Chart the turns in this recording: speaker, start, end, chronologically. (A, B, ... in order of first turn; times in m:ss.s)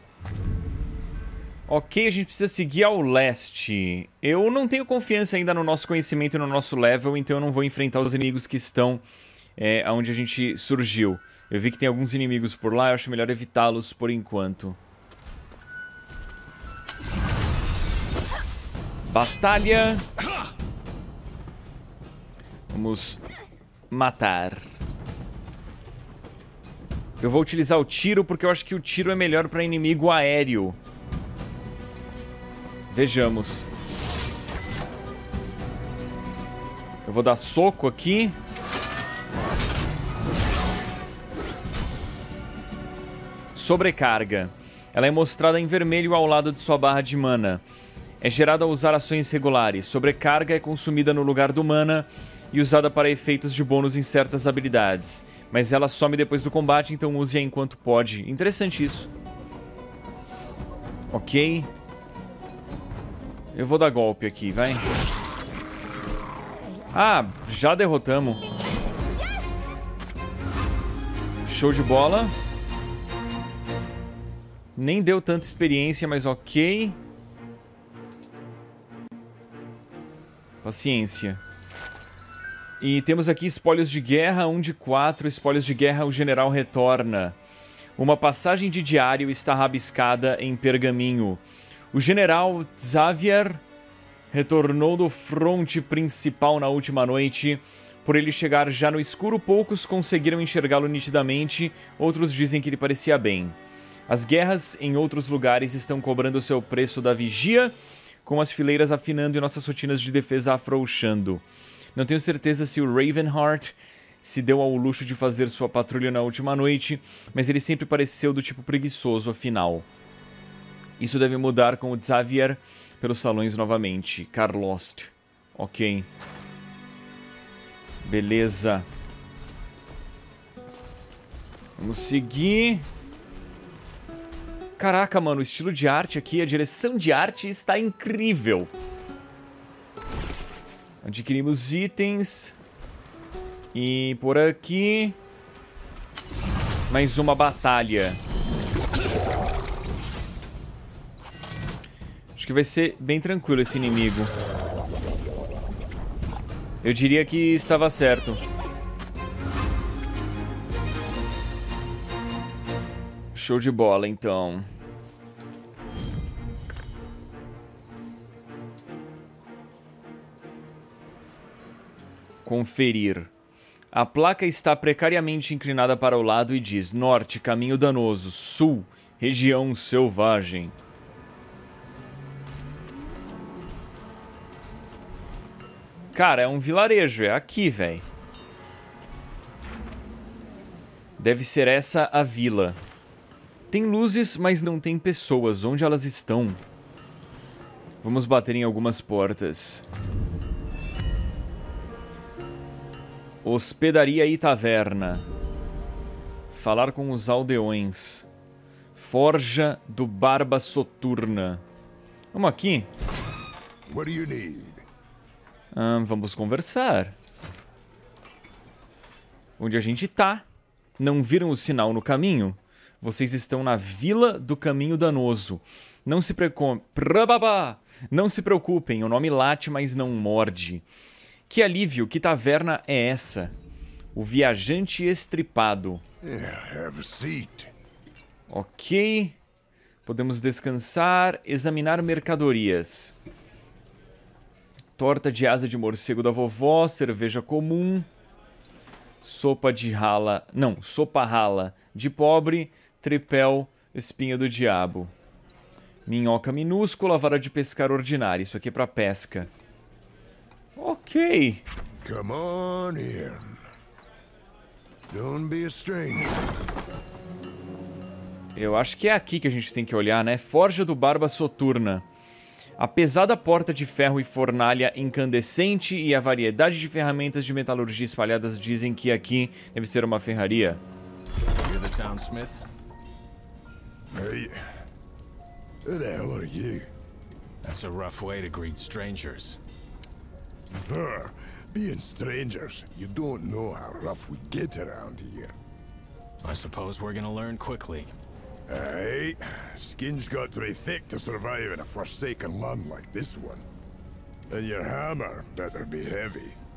0:01.7-0:09.0 A
0:09.6-0:14.8 A
0:19.1-0:20.0 A
0:22.7-0:23.2 A
0:23.9-0:24.7 A
0:27.2-0:30.8 A
0:32.9-0:33.7 A
0:37.0-0:38.4 A
0:43.5-0:47.6 A
0:48.2-0:59.1 A
1:01.1-1:01.7 A
1:03.5-1:04.8 A
1:06.9-1:08.4 A
1:11.4-1:12.3 A
1:14.8-1:17.0 A
1:20.6-1:21.4 A
1:22.8-1:27.4 A
1:28.0-1:31.4 A
1:31.9-1:33.6 A
1:34.3-1:43.6 A
1:44.1-1:59.9 A
2:01.0-2:06.1 A
2:08.0-2:08.9 A
2:11.8-2:12.9 A
2:14.8-2:18.7 A
2:21.0-2:22.6 A
2:23.7-2:25.2 A
2:26.9-2:28.2 A
2:32.4-2:34.3 A
2:36.8-2:38.4 A
2:43.3-2:44.7 A
2:52.4-2:53.3 A
2:53.9-3:00.7 A
3:06.1-3:08.0 A
3:11.2-3:12.8 A
3:13.7-3:16.6 A
3:18.0-3:19.8 A
3:23.4-3:25.2 A
3:26.5-3:28.3 A
3:28.9-3:31.6 A
3:32.3-3:32.9 A
3:33.9-3:34.8 B
3:35.7-3:37.2 A
3:39.6-3:40.4 A
3:41.0-3:50.8 A
3:51.5-3:53.5 A
3:54.1-3:56.0 A
3:56.2-3:57.7 B
3:58.5-3:59.4 A
4:00.0-4:03.1 A
4:05.0-4:08.1 A
4:09.2-4:15.1 A
4:16.0-4:19.5 A
4:20.8-4:21.6 A
4:22.0-4:23.5 B
4:25.1-4:26.3 B
4:28.5-4:32.0 A
4:32.8-4:40.8 A
4:41.6-4:42.6 C
4:44.1-4:44.6 B
4:45.8-4:46.9 B
4:47.6-4:49.6 C
4:50.9-4:55.6 B
4:56.4-4:58.1 C
4:58.7-5:03.6 B
5:04.5-5:06.6 B